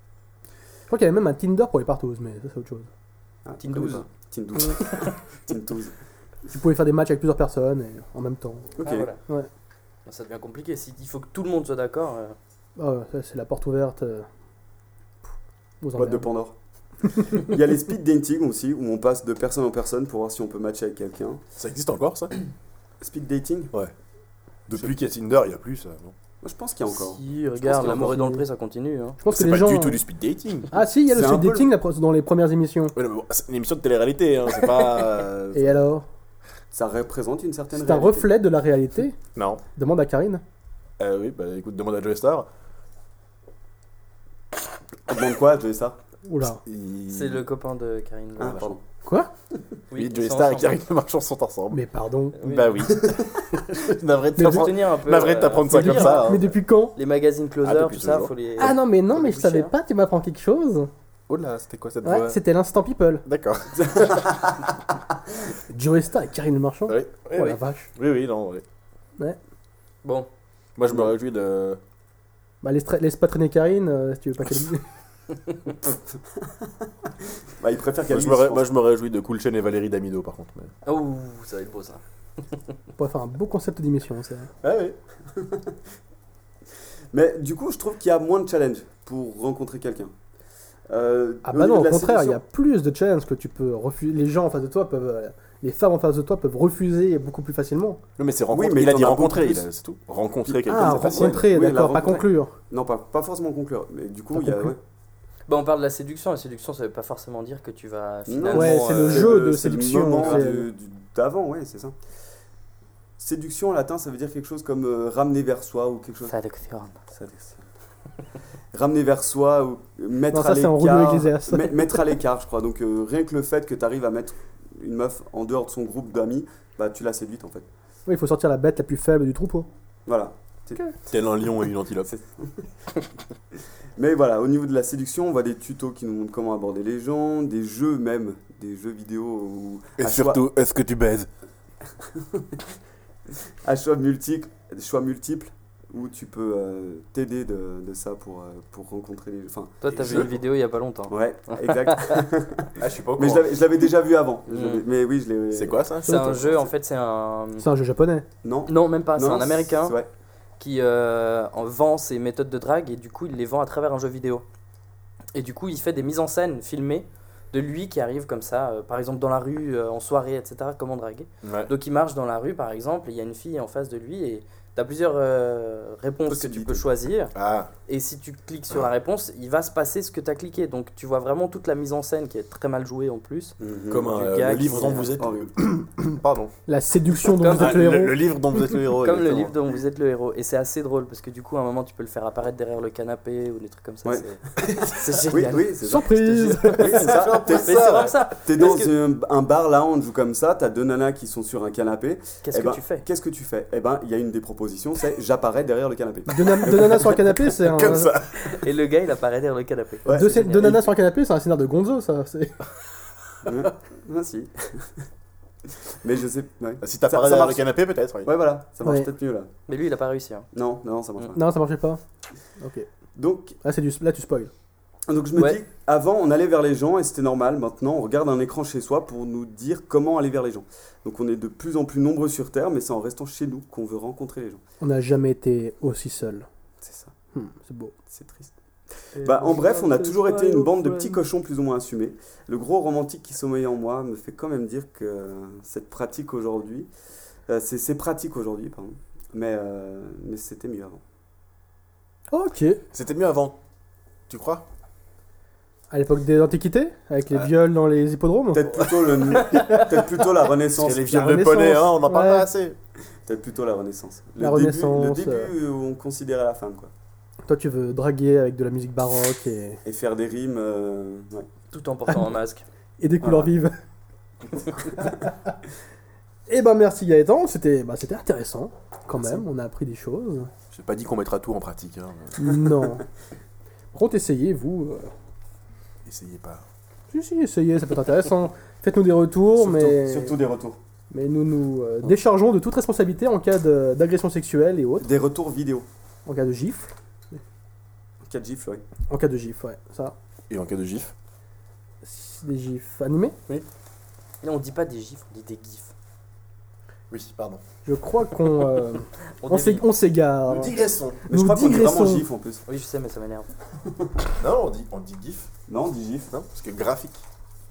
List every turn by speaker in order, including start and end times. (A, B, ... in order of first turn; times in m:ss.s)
0:00.9-0:02.9 A
0:03.4-0:06.0 B
0:03.6-0:04.0 C
0:06.5-0:08.7 A
0:08.8-0:09.1 B
0:08.8-0:09.2 C
0:10.0-0:12.4 C
0:12.8-0:14.3 A
0:15.8-0:16.3 A
0:16.0-0:16.5 B
0:17.1-0:21.4 B
0:21.6-0:22.3 D
0:23.0-0:23.7 B
0:24.7-0:26.1 D
0:26.4-0:27.2 B
0:26.9-0:29.2 C
0:27.7-0:28.4 A
0:29.2-0:30.0 A
0:29.3-0:30.7 D
0:30.7-0:32.9 A
0:31.1-0:31.7 B
0:32.9-0:35.8 D
0:35.5-0:36.0 A
0:36.7-0:38.4 B
0:37.7-0:39.2 A
0:39.3-0:39.6 D
0:39.8-0:40.4 A
0:41.0-0:42.5 D
0:45.1-0:46.0 B
0:46.2-0:46.6 A
0:46.6-0:47.4 D
0:47.1-0:48.7 C
0:48.4-0:48.8 B
0:48.4-0:48.7 D
0:49.0-0:49.3 A
0:49.9-0:50.8 C
0:49.9-0:51.8 D
0:51.7-0:52.4 A
0:52.4-0:52.9 C
0:52.4-0:56.5 D
0:54.4-0:54.7 A
0:54.4-0:56.3 C
0:55.7-0:56.9 A
0:57.0-0:59.7 C
0:57.6-0:58.3 D
0:58.6-1:00.9 A
1:01.3-1:02.4 D
1:02.0-1:03.2 A
1:03.2-1:04.3 D
1:03.8-1:04.5 B
1:05.7-1:07.9 A
1:06.9-1:08.6 D
1:10.8-1:11.8 D
1:12.6-1:14.8 A
1:17.6-1:18.6 B
1:18.1-1:20.7 D
1:20.8-1:22.0 C
1:23.0-1:24.5 A
1:24.6-1:25.0 D
1:27.1-1:30.1 B
1:30.9-1:32.4 B
1:31.4-1:38.0 A
1:38.2-1:41.5 D
1:38.5-1:39.6 B
1:40.4-1:44.8 B
1:40.7-1:42.5 A
1:44.3-1:44.7 A
1:45.5-1:49.5 C
1:48.3-1:51.9 B
1:48.5-1:50.7 A
1:50.2-1:50.4 C
1:53.2-1:56.3 B
1:56.3-1:56.9 C
1:57.1-1:57.6 B
1:58.7-2:07.7 B
2:00.3-2:02.0 A
2:08.0-2:09.7 A
2:10.0-2:10.8 B
2:11.1-2:12.1 D
2:12.0-2:12.6 B
2:14.0-2:20.4 B
2:20.0-2:21.3 D
2:23.6-2:30.3 B
2:29.8-2:32.2 C
2:29.9-2:30.4 D
2:31.1-2:35.8 B
2:32.8-2:33.6 D
2:34.5-2:34.8 C
2:35.5-2:36.7 D
2:36.0-2:37.6 C
2:37.6-2:38.2 A
2:38.4-2:40.1 B
2:38.7-2:40.0 C
2:40.6-2:44.4 C
2:45.3-2:57.3 C
2:51.4-2:51.7 D
2:56.3-2:56.9 B
2:57.3-2:57.7 D
2:57.9-3:05.2 C
3:03.6-3:05.5 B
3:03.9-3:06.5 D
3:06.7-3:08.2 A
3:07.4-3:07.8 C
3:07.5-3:09.6 D
3:09.0-3:18.9 C
3:14.0-3:27.1 B
3:15.8-3:17.0 A
3:16.9-3:18.3 D
3:22.4-3:23.0 C
3:26.3-3:28.1 A
3:27.6-3:28.6 D
3:28.4-3:30.8 C
3:30.0-3:30.8 B
3:30.1-3:32.5 A
3:33.4-3:35.0 B
3:36.0-3:37.7 B
3:36.8-3:38.3 D
3:38.2-3:39.5 B
3:38.8-3:39.1 A
3:39.7-3:40.5 C
3:40.5-3:41.4 B
3:41.3-3:42.0 A
3:42.6-3:42.9 A
3:43.2-3:43.6 B
3:43.6-3:44.5 A
3:45.1-3:54.6 B
3:54.8-3:56.4 A
3:56.8-3:57.1 B
3:57.3-3:57.9 A
3:58.1-3:58.5 B
3:59.2-4:01.2 C
3:59.2-4:06.9 B
4:07.5-4:11.0 B
4:12.3-4:12.8 A
4:12.9-4:13.6 D
4:14.3-4:14.6 D
4:15.9-4:18.6 A
4:18.5-4:21.2 B
4:20.7-4:22.8 D
4:21.1-4:22.5 A
4:23.2-4:26.9 B
4:24.4-4:25.5 A
4:27.4-4:29.8 A
4:29.8-4:31.5 B
4:31.7-4:32.6 C
4:33.0-4:33.7 A
4:33.2-4:33.5 B
4:36.5-4:40.5 A
4:40.7-4:42.6 D
4:42.4-4:43.0 A
4:43.9-4:45.1 A
4:46.0-4:46.6 D
4:47.1-4:50.3 A
4:49.5-4:50.8 B
4:51.1-4:55.1 A
4:55.0-4:55.9 B
4:56.2-4:56.9 A
4:58.2-4:58.8 B
4:59.1-5:00.1 A
5:00.5-5:01.1 D
5:02.0-5:03.4 A
5:04.4-5:05.9 C
5:07.1-5:07.6 D
5:07.8-5:10.8 A
5:09.4-5:09.8 C
5:10.4-5:11.2 D
5:11.3-5:12.6 B
5:11.3-5:12.2 A
5:12.7-5:13.5 C
5:14.4-5:15.5 D
5:15.7-5:16.3 B
5:16.3-5:17.2 D